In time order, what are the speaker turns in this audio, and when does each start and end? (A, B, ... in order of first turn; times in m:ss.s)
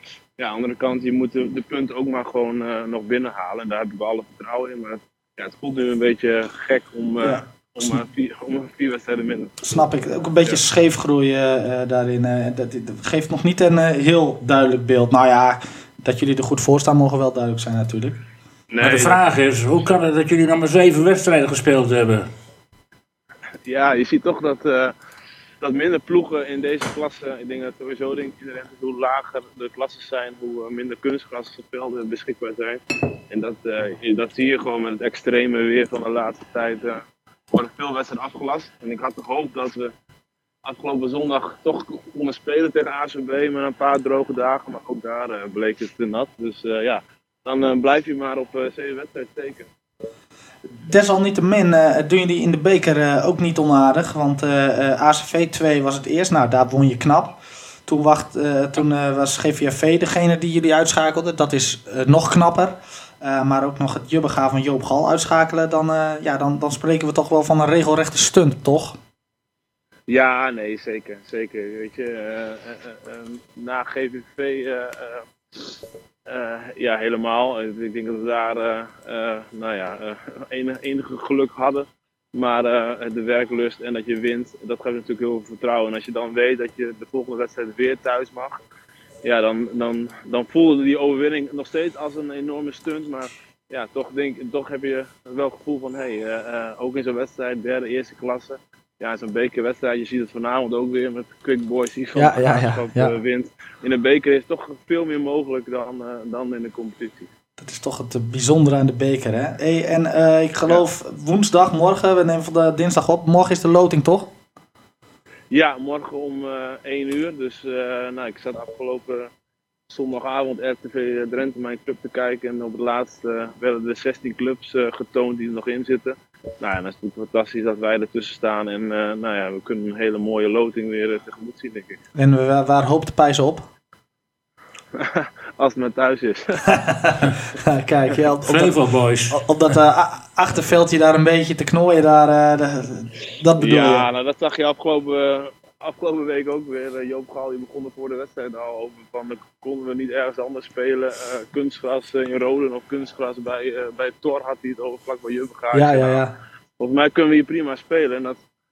0:00.4-0:09.6 A
0:07.2-0:08.0 B
0:09.6-0:18.2 B
0:18.7-0:19.2 A
0:18.8-0:22.3 C
0:23.6-0:24.9 A
0:25.6-0:39.9 A
0:40.6-0:49.7 A
0:50.9-1:09.0 B
1:10.1-1:15.8 A
1:16.3-1:28.6 A
1:29.2-1:47.3 A
1:42.2-1:43.1 B
1:47.6-1:54.3 B
1:55.5-1:59.3 A
1:59.9-2:12.0 A
2:12.1-2:13.7 B
2:14.9-2:16.6 A
2:16.7-2:18.8 B
2:18.4-2:19.4 C
2:19.3-2:24.1 B
2:23.6-2:36.2 A
2:35.7-2:36.4 B
2:36.8-2:38.4 A